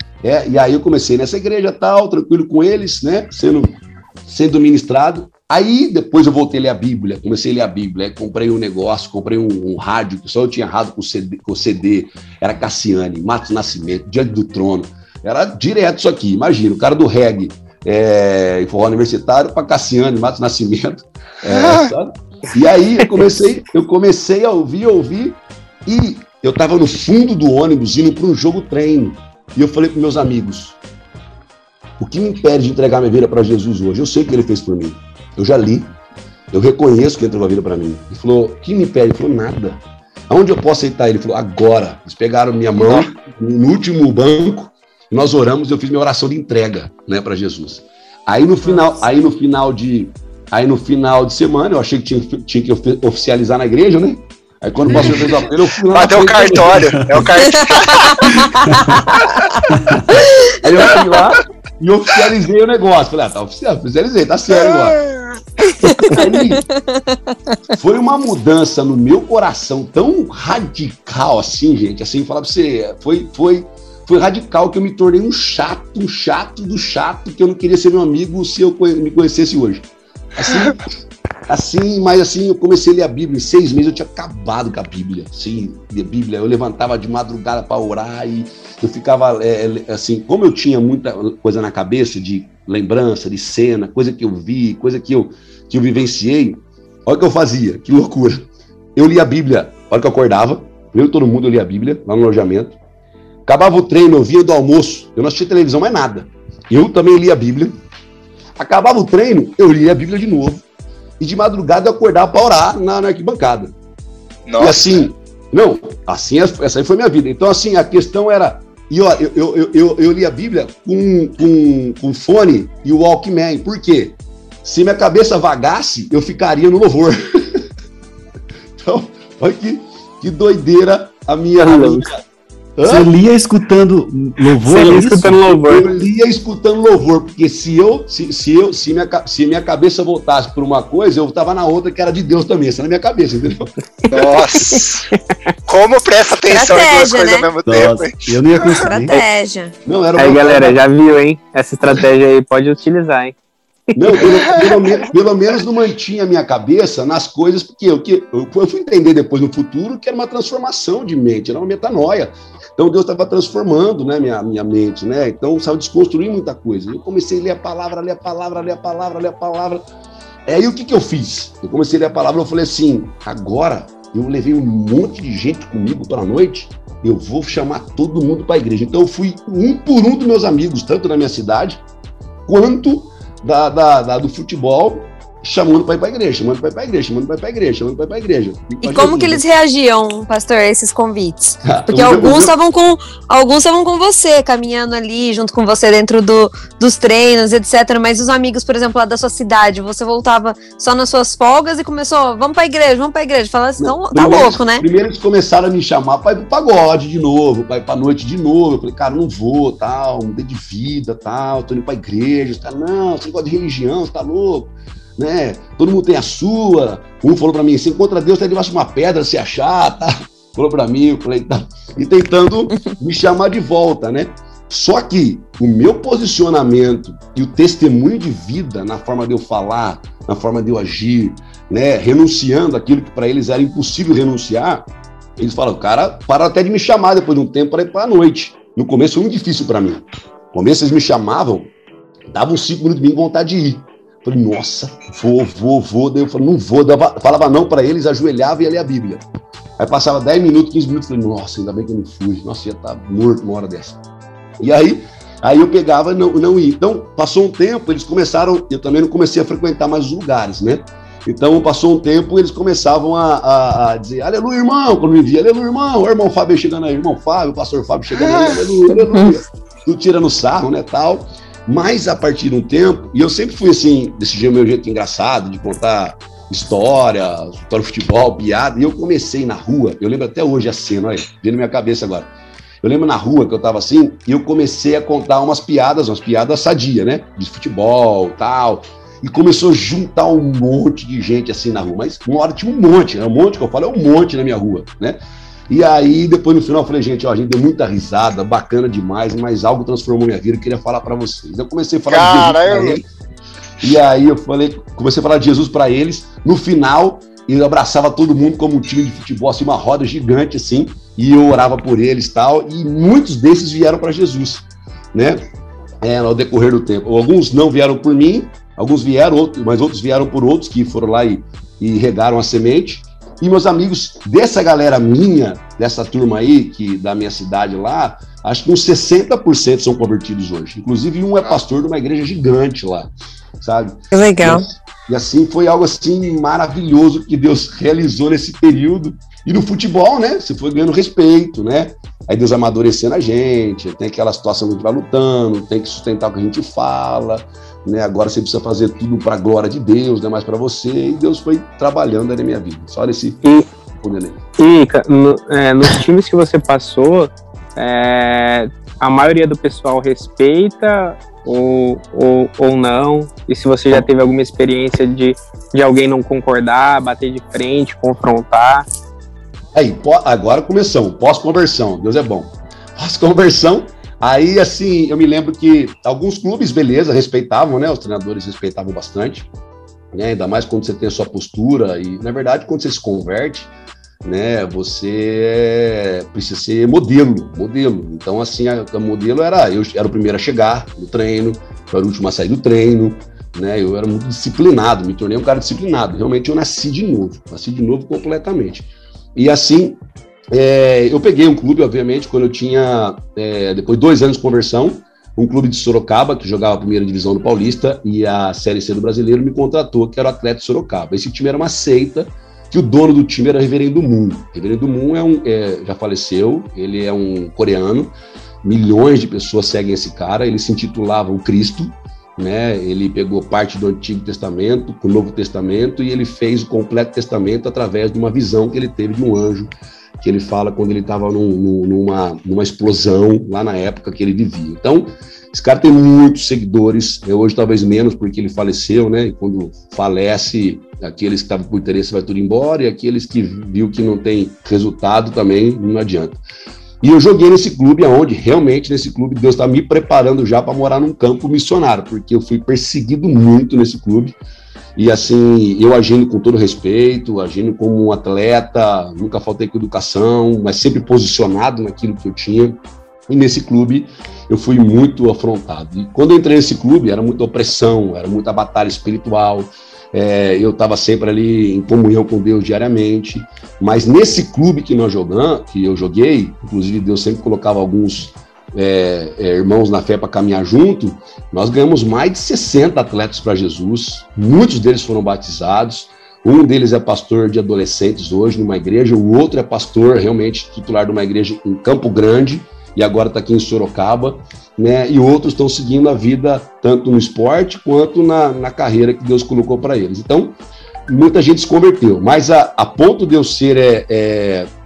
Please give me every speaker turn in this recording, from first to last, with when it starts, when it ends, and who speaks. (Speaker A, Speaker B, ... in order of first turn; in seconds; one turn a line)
Speaker A: 0.2-30.8
Speaker B: 21.5-21.9
Speaker A: 32.0-36.0
Speaker A: 36.5-57.4
Speaker C: 54.9-55.2
Speaker B: 55.0-55.3
Speaker B: 55.9-58.5
Speaker D: 57.7-57.9
Speaker C: 58.4-59.0
Speaker B: 59.1-59.6
Speaker A: 60.6-65.0
Speaker A: 65.9-66.7
Speaker A: 67.7-80.8
Speaker B: 80.4-80.8
Speaker A: 81.5-102.8
Speaker A: 103.5-107.8
Speaker A: 108.6-110.6
Speaker A: 111.2-113.8
Speaker B: 114.5-115.0
Speaker A: 114.6-127.7
Speaker A: 128.8-132.2
Speaker E: 131.6-132.1
Speaker A: 132.8-133.1
Speaker C: 132.8-135.6
Speaker E: 134.7-135.9
Speaker A: 135.7-143.7
Speaker B: 144.1-145.1
Speaker E: 144.1-145.2
Speaker B: 145.7-148.8
Speaker D: 146.5-147.5
Speaker C: 147.7-149.2
Speaker D: 148.8-149.8
Speaker A: 149.8-150.8
Speaker E: 150.2-153.4
Speaker E: 153.9-154.3
Speaker A: 153.9-169.8
Speaker B: 154.3-154.8
Speaker A: 170.5-181.8
Speaker A: 182.5-189.4
Speaker D: 188.8-204.8
Speaker A: 191.7-192.5
Speaker A: 203.8-234.9
Speaker A: 235.4-241.7
Speaker A: 242.3-249.2
Speaker A: 249.8-254.0
Speaker A: 254.6-282.3
Speaker B: 268.2-268.6
Speaker A: 282.8-303.1
Speaker B: 302.1-303.0
Speaker A: 303.8-315.4
Speaker A: 316.0-353.4
Speaker D: 334.1-334.7
Speaker A: 354.0-354.4
Speaker E: 354.6-368.9
Speaker A: 369.7-379.5
Speaker A: 380.1-383.7
Speaker A: 384.2-400.0
Speaker A: 400.5-446.4
Speaker A: 447.0-454.4
Speaker A: 455.0-504.7